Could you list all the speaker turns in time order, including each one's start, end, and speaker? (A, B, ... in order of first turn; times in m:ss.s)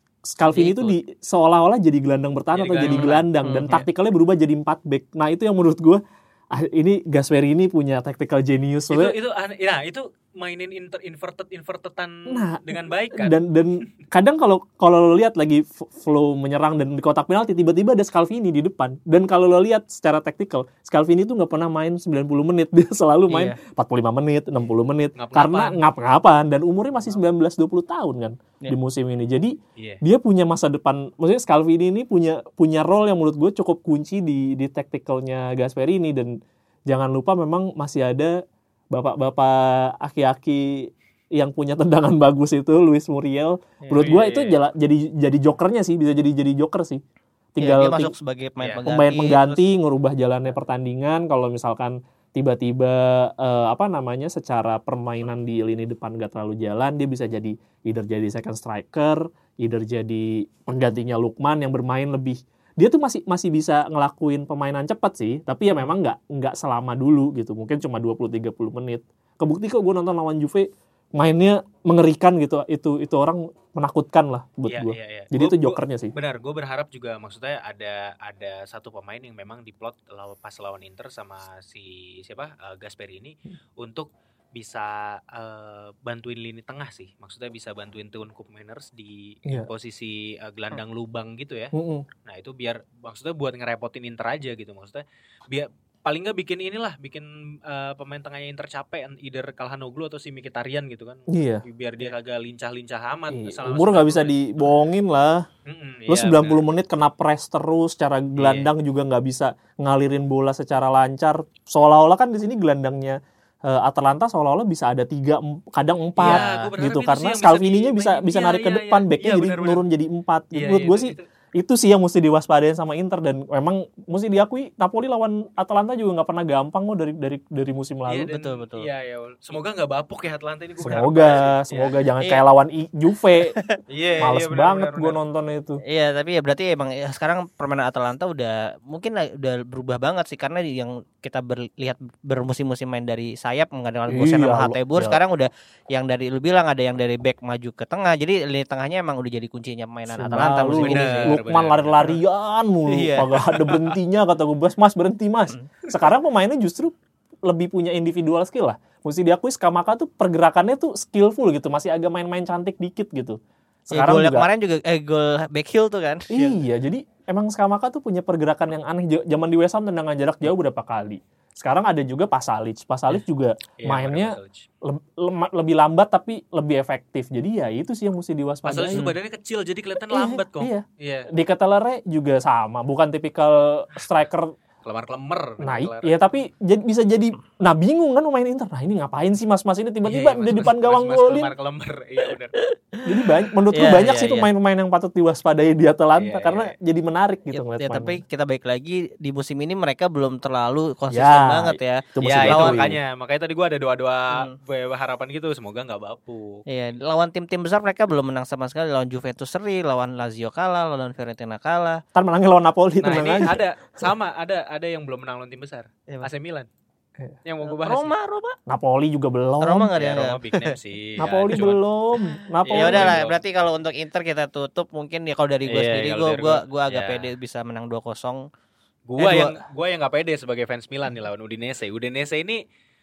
0:00.3-0:09.2 A
0:00.5-0:00.9 B
0:02.5-0:03.3 C
0:02.8-0:03.8 B
0:08.9-0:13.4 C
0:12.3-0:47.0 A
0:23.3-0:23.6 B
0:25.2-0:25.8 C
0:43.9-0:44.6 C
0:47.6-0:48.1 A
0:47.6-0:49.6 B
0:48.6-0:48.8 C
0:48.9-1:16.1 A
1:14.7-1:31.7 C
1:31.7-1:32.1 A
1:32.2-1:44.4 C
1:41.3-1:41.6 A
1:43.3-1:45.5 A
1:45.7-1:46.6 C
1:46.1-2:08.3 A
1:48.4-1:48.7 C
1:56.2-1:59.8 C
1:56.2-1:56.7 B
2:00.5-2:01.3 C
2:08.1-2:11.9 C
2:08.3-2:08.9 B
2:10.8-2:13.6 A
2:13.4-2:13.8 B
2:13.9-2:15.2 C
2:14.2-2:15.8 A
2:15.8-2:31.4 B
2:24.1-2:25.2 A
2:30.1-2:44.5 A
2:30.8-2:32.2 C
2:32.9-2:33.3 B
2:33.5-2:33.9 C
2:43.9-2:46.6 B
2:46.3-2:59.2 A
2:53.8-2:54.7 C
2:58.7-3:01.3 C
3:00.0-3:04.5 A
3:04.8-3:06.1 C
3:05.6-3:11.5 A
3:10.0-3:12.6 C
3:12.6-3:13.0 B
3:13.0-3:18.2 A
3:13.7-3:14.5 B
3:16.2-3:16.7 C
3:17.5-3:22.8 B
3:21.1-3:23.0 A
3:22.2-3:26.6 C
3:26.7-3:32.0 B
3:32.2-3:33.6 A
3:33.0-3:36.7 C
3:37.4-3:38.1 C
3:37.8-3:38.6 B
3:38.7-3:40.0 A
3:39.6-3:40.8 B
3:40.0-3:41.8 C
3:41.2-3:43.2 A
3:42.6-3:43.4 C
3:42.7-3:48.5 B
3:45.7-3:47.3 C
3:49.1-3:52.6 C
3:49.2-3:49.6 B